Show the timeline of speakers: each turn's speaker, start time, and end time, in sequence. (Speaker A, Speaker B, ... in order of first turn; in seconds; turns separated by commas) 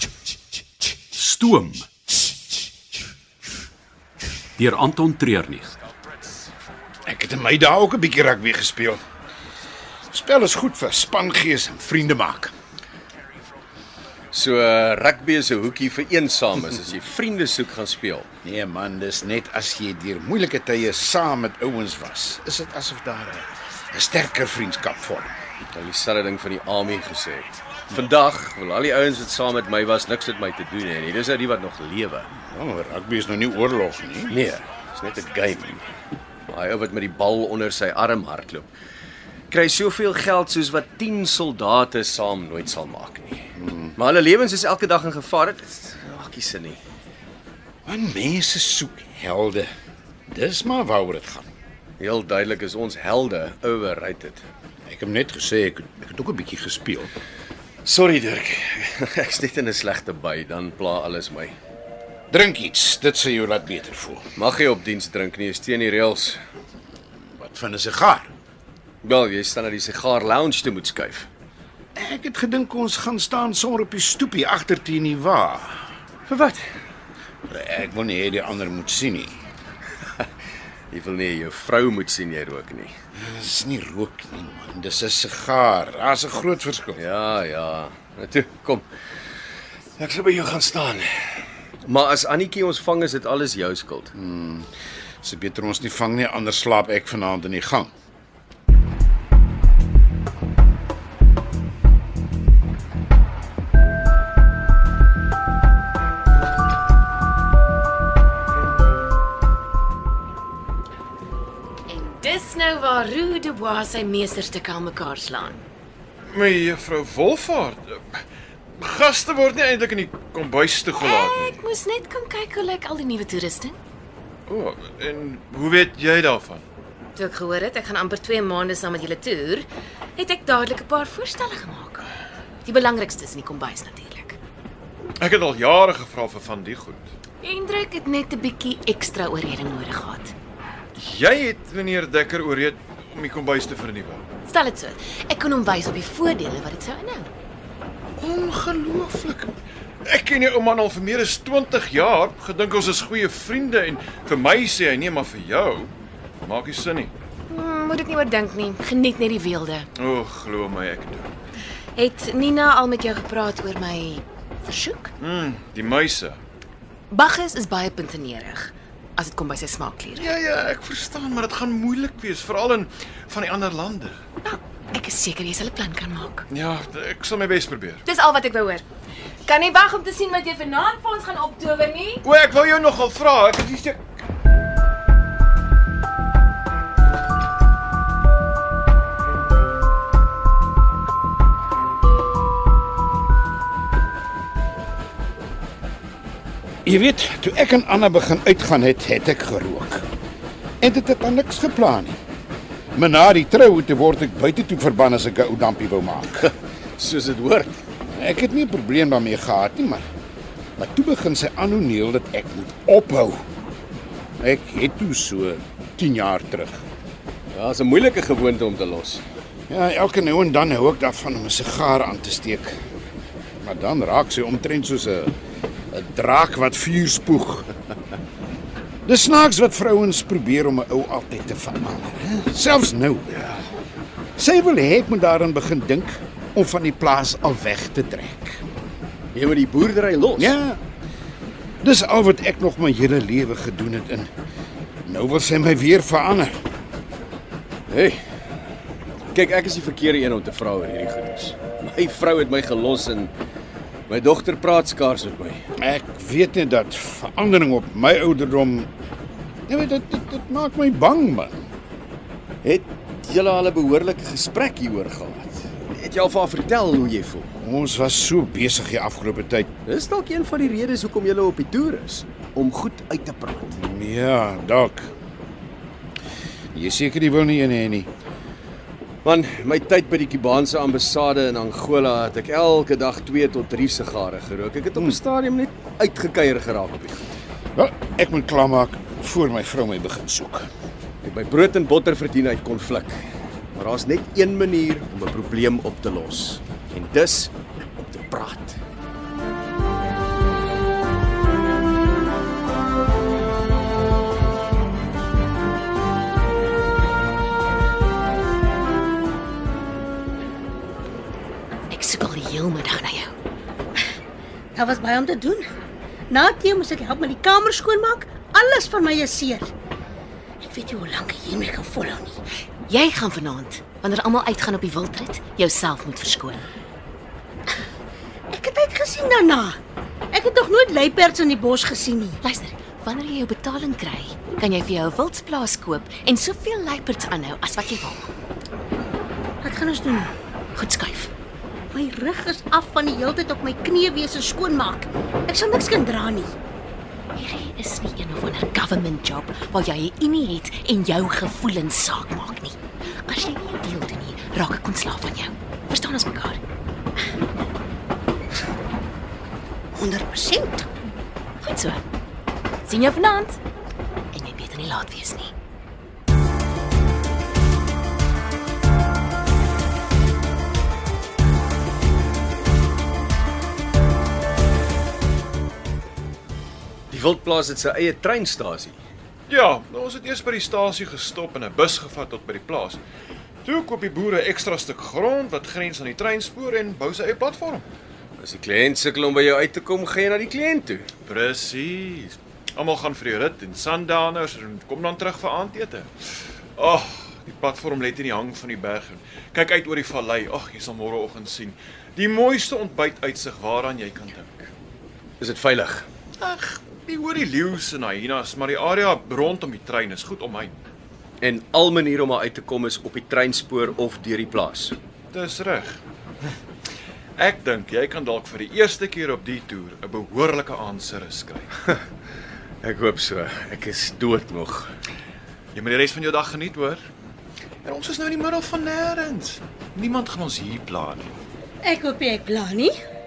Speaker A: 1.1-1.9, Speaker A: 4.6-5.8, Speaker B: 7.0-9.0, Speaker B: 10.1-12.5, Speaker C: 14.3-18.3, Speaker B: 18.4-25.3, Speaker C: 25.7-32.3, Speaker B: 32.4-34.4, Speaker C: 34.3-35.9, Speaker C: 36.5-38.7, Speaker C: 39.5-46.8, Speaker B: 43.6-43.9, Speaker B: 47.8-49.7, Speaker B: 50.3-51.5, Speaker C: 52.0-54.4, Speaker B: 54.9-57.1, Speaker C: 57.8-61.5, Speaker B: 62.3-64.3, Speaker C: 64.3-66.4, Speaker B: 67.3-68.3, Speaker C: 69.0-71.3, Speaker B: 72.0-75.9, Speaker C: 76.3-76.6, Speaker B: 77.5-79.4, Speaker C: 80.9-83.0, Speaker B: 83.1-87.0, Speaker C: 87.0-88.8, Speaker C: 90.0-91.1, Speaker C: 91.8-94.1, Speaker B: 94.1-94.7, Speaker B: 95.2-97.9, Speaker D: 111.9-115.6, Speaker E: 116.3-118.2, Speaker E: 118.8-121.6, Speaker D: 121.0-123.8, Speaker E: 124.5-126.6, Speaker D: 127.1-132.1, Speaker D: 132.6-134.4, Speaker E: 135.2-137.1, Speaker D: 137.4-140.3, Speaker E: 140.9-144.2, Speaker D: 144.5-147.3, Speaker E: 148.2-157.1, Speaker D: 157.5-159.9, Speaker E: 159.9-161.3, Speaker D: 161.9-165.1, Speaker E: 165.2-166.4, Speaker D: 167.1-170.2, Speaker E: 170.2-174.2, Speaker D: 174.4-176.4, Speaker E: 176.5-178.0, Speaker D: 178.0-178.8, Speaker D: 179.4-182.2, Speaker E: 182.2-184.0, Speaker B: 196.8-200.0, Speaker B: 200.8-202.2, Speaker B: 202.9-206.5, Speaker C: 207.0-207.8, Speaker B: 208.1-210.1, Speaker B: 210.8-213.4, Speaker B: 214.4-216.8, Speaker C: 217.5-219.2, Speaker B: 219.7-222.8, Speaker B: 223.6-225.3, Speaker B: 225.9-227.7, Speaker B: 229.0-233.4, Speaker C: 233.3-233.6, Speaker B: 234.4-238.6, Speaker C: 239.3-240.6, Speaker B: 240.4-240.8, Speaker B: 241.8-244.3, Speaker B: 245.0-246.6, Speaker C: 247.9-248.2, Speaker C: 249.3-253.3, Speaker C: 254.1-255.6, Speaker B: 255.8-258.9, Speaker B: 259.7-261.6, Speaker C: 262.6-267.5, Speaker B: 267.6-269.7, Speaker C: 269.9-273.7, Speaker B: 273.7-275.1, Speaker B: 276.7-278.1, Speaker C: 279.2-287.3, Speaker B: 287.7-290.7, Speaker C: 291.2-293.2, Speaker C: 293.8-298.8, Speaker D: 311.9-313.3, Speaker F: 314.7-315.6, Speaker F: 316.3-319.7, Speaker F: 320.6-322.4, Speaker D: 322.9-326.6, Speaker F: 328.5-329.8, Speaker F: 330.3-332.4, Speaker D: 332.4-338.3, Speaker F: 339.6-340.3, Speaker D: 340.7-341.3, Speaker F: 341.9-346.5, Speaker D: 347.4-356.6, Speaker F: 359.9-360.9, Speaker D: 361.6-362.0, Speaker D: 362.8-363.6, Speaker D: 364.3-365.5, Speaker C: 377.1-379.0, Speaker E: 379.5-383.0, Speaker E: 383.6-387.9, Speaker C: 388.4-391.1, Speaker E: 391.2-404.7, Speaker C: 405.4-406.1, Speaker E: 406.4-410.8, Speaker C: 411.4-414.9, Speaker E: 415.3-416.0, Speaker E: 417.4-421.7, Speaker C: 422.8-424.9, Speaker E: 425.7-427.1, Speaker E: 427.8-431.4, Speaker F: 431.8-432.9